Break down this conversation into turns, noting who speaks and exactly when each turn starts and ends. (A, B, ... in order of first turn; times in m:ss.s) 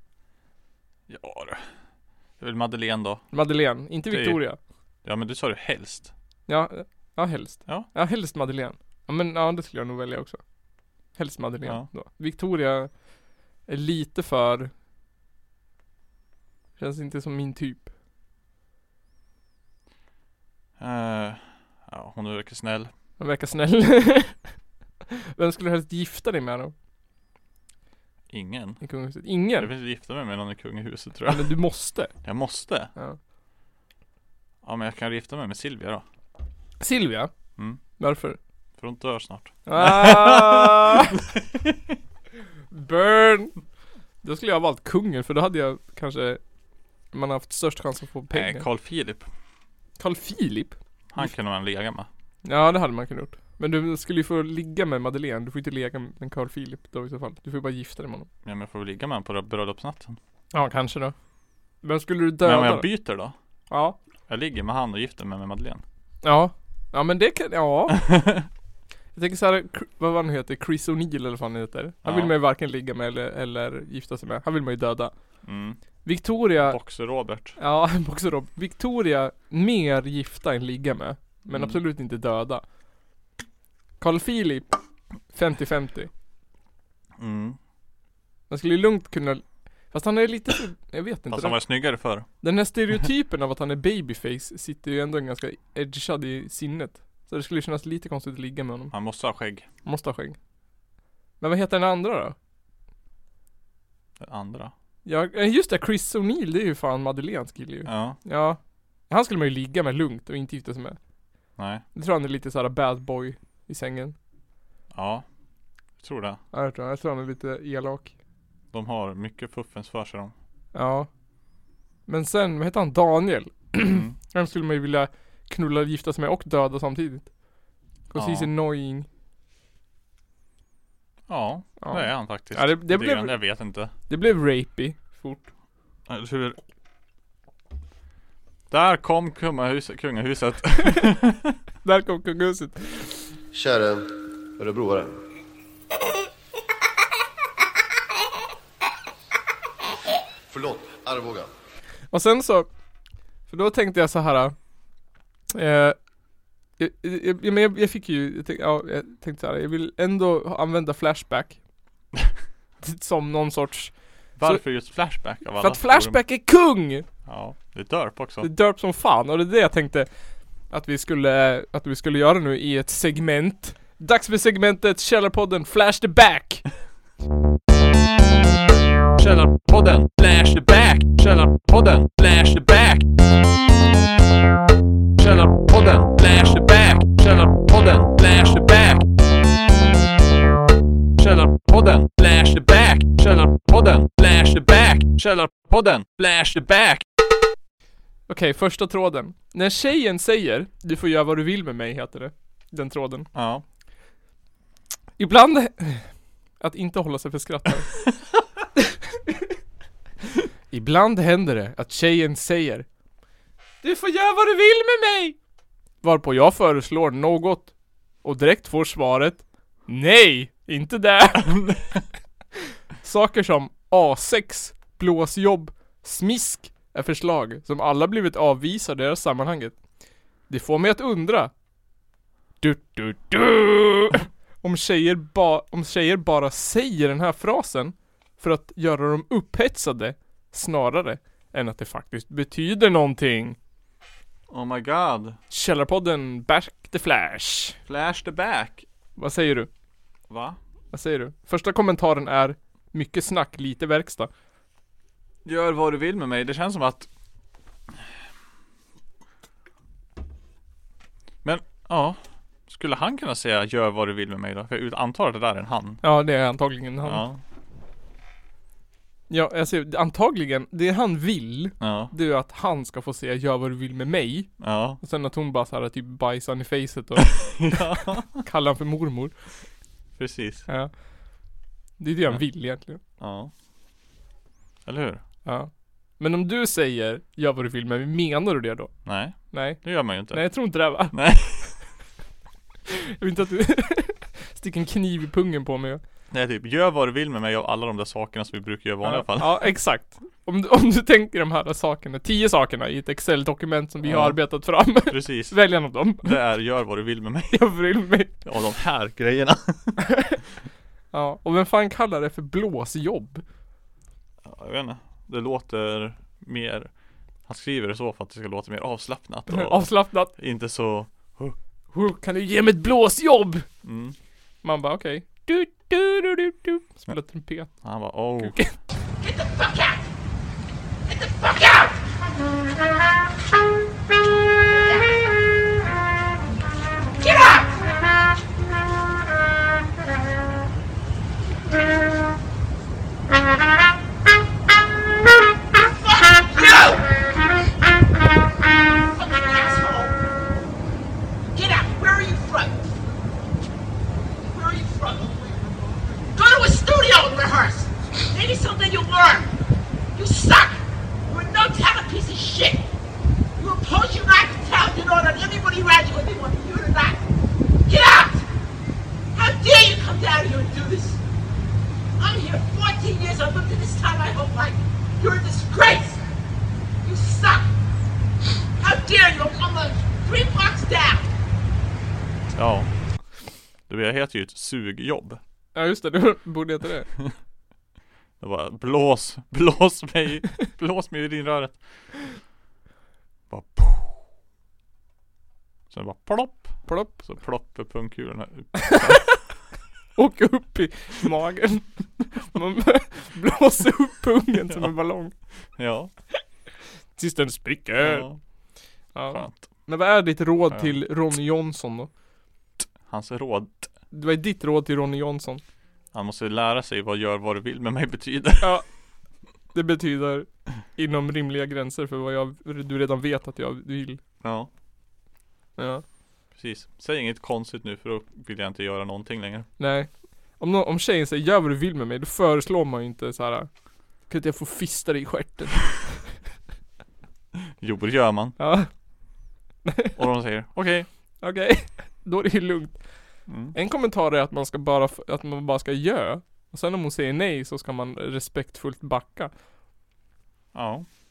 0:01.1-0:01.6 A
0:02.4-0:03.2 A
0:03.3-0:04.6 B
0:04.1-0:04.4 A
0:05.0-0:06.1 A
0:06.5-0:10.4 B
0:11.1-0:12.9 B
0:13.7-0:14.7 B
0:16.8-0:17.9 B
0:20.8-0:22.9 A
0:23.2-0:24.6 B
0:25.3-0:26.7 B
0:28.3-0:28.8 A
0:28.8-0:29.7 B
0:29.6-0:31.6 A
0:31.3-0:32.1 B
0:32.2-0:32.9 A
0:34.6-0:36.0 A
0:36.8-0:37.3 B
0:38.0-0:38.4 B
0:38.8-0:41.1 A
0:39.6-0:41.2 B
0:42.7-0:43.6 B
0:44.2-0:46.4 B
0:47.1-0:48.6 B
0:48.3-0:49.3 A
0:50.0-0:51.3 B
0:51.1-0:52.1 A
0:52.4-0:58.3 B
0:58.4-1:00.2 A
1:00.5-1:01.1 B
1:01.8-1:02.9 B
1:02.4-1:03.3 A
1:03.7-1:04.0 B
1:04.3-1:05.8 A
1:06.2-1:08.0 B
1:08.0-1:08.4 A
1:09.1-1:15.1 B
1:12.0-1:12.3 A
1:15.4-1:15.8 A
1:16.0-1:16.8 B
1:16.6-1:17.6 A
1:17.6-1:22.6 B
1:21.5-1:21.8 A
1:24.0-1:24.8 B
1:25.3-1:26.1 B
1:27.2-1:27.6 A
1:28.5-1:31.6 B
1:31.3-1:32.3 A
1:32.4-1:38.9 B
1:38.9-1:39.6 A
1:39.8-1:40.4 B
1:41.4-1:42.4 B
1:44.2-1:44.7 A
1:45.0-1:51.0 B
1:47.8-1:48.2 A
1:51.6-1:51.8 A
1:51.9-1:54.1 B
1:54.9-1:55.2 A
1:56.0-1:56.4 A
1:56.5-1:58.1 B
1:58.7-2:00.3 A
2:00.7-2:01.1 B
2:02.1-2:07.3 B
2:03.8-2:04.1 A
2:08.1-2:09.1 B
2:08.1-2:08.5 A
2:11.3-2:13.9 A
2:11.8-2:13.4 B
2:14.1-2:15.5 B
2:16.1-2:16.6 A
2:18.7-2:21.5 A
2:21.8-2:23.1 B
2:23.5-2:25.2 C
2:30.5-2:31.5 C
2:32.1-2:32.7 B
2:33.5-2:34.6 B
2:35.5-2:36.0 B
2:36.8-2:41.6 B
2:42.8-2:44.6 B
2:44.4-2:46.2 A
2:45.6-2:47.0 B
2:47.2-2:48.5 A
2:48.4-2:50.1 B
2:50.7-2:56.7 B
2:59.2-3:03.1 A
3:05.2-3:09.1 A
3:11.2-3:17.0 A
3:18.3-3:23.3 B
3:23.3-3:23.6 A
3:25.2-3:26.1 B
3:26.6-3:27.9 B
3:30.7-3:32.8 B
3:33.8-3:35.4 B
3:36.0-3:37.7 B
3:38.2-3:41.6 B
3:41.4-3:42.0 A
3:43.0-3:49.8 B
3:50.5-3:51.5 B
3:52.6-4:03.6 B
4:04.5-4:05.4 A
4:05.5-4:07.8 B
4:07.9-4:08.8 A
4:09.2-4:09.7 B
4:10.3-4:10.6 A
4:10.9-4:14.3 B
4:15.4-4:17.1 A
4:21.4-4:26.0 A
4:26.0-4:27.2 B
4:27.0-4:27.4 A
4:29.3-4:37.8 B
4:31.8-4:32.1 A
4:34.6-4:35.0 A
4:37.2-4:38.4 A
4:38.4-4:39.3 B
4:40.2-4:40.7 A
4:42.0-4:43.0 B
4:43.2-4:43.5 A
4:44.8-4:45.2 A
4:45.4-4:48.9 B
4:49.0-4:51.8 A
4:49.5-4:51.1 B
4:53.2-4:56.0 B
4:56.3-4:59.7 A
4:59.0-5:06.3 B
5:04.0-5:05.6 A
5:06.2-5:07.7 A
5:07.5-5:08.3 B
5:08.4-5:10.0 A
5:10.0-5:10.4 B
5:11.1-5:13.4 B
5:14.4-5:16.9 A
5:17.4-5:21.6 A
5:19.5-5:20.3 B
5:21.9-5:23.6 B
5:23.8-5:24.2 A
5:24.6-5:27.7 B
5:27.8-5:28.6 A
5:28.4-5:28.7 B
5:29.2-5:30.0 D
5:31.1-5:32.0 D
5:34.6-5:35.3 D
5:37.2-5:37.7 D
5:45.7-5:47.1 D
5:49.1-5:50.2 D
5:51.5-5:52.8 D
5:54.4-5:55.7 D
5:56.3-5:59.5 D
6:00.1-6:02.8 D
6:03.6-6:07.2 D
6:07.8-6:08.4 D
6:09.3-6:11.2 D
6:12.2-6:16.2 D
6:17.0-6:17.7 D
6:18.8-6:21.3 D
6:22.5-6:22.9 A
6:23.9-6:25.4 A
6:25.7-6:27.1 B
6:28.4-6:32.1 A
6:33.5-6:34.2 A
6:35.9-6:39.5 A
6:36.8-6:37.2 B
6:38.8-6:39.2 B
6:40.2-6:45.3 B
6:45.8-6:46.1 A
6:47.2-6:48.2 B
6:48.0-6:48.4 A
6:49.1-6:52.1 B
6:49.3-6:49.7 A
6:53.0-6:53.9 A
6:54.1-6:55.6 B
6:56.1-6:58.8 A
6:58.6-6:58.8 B
6:59.7-7:04.2 B
7:04.4-7:04.7 A
7:05.8-7:06.0 B
7:06.5-7:09.7 A
7:09.8-7:13.7 B
7:14.3-7:16.0 B
7:17.8-7:18.6 A
7:18.6-7:18.9 B
7:19.8-7:20.1 B
7:20.2-7:21.1 A
7:21.4-7:23.0 B
7:23.5-7:23.7 A
7:23.7-7:29.5 B
7:30.7-7:31.0 A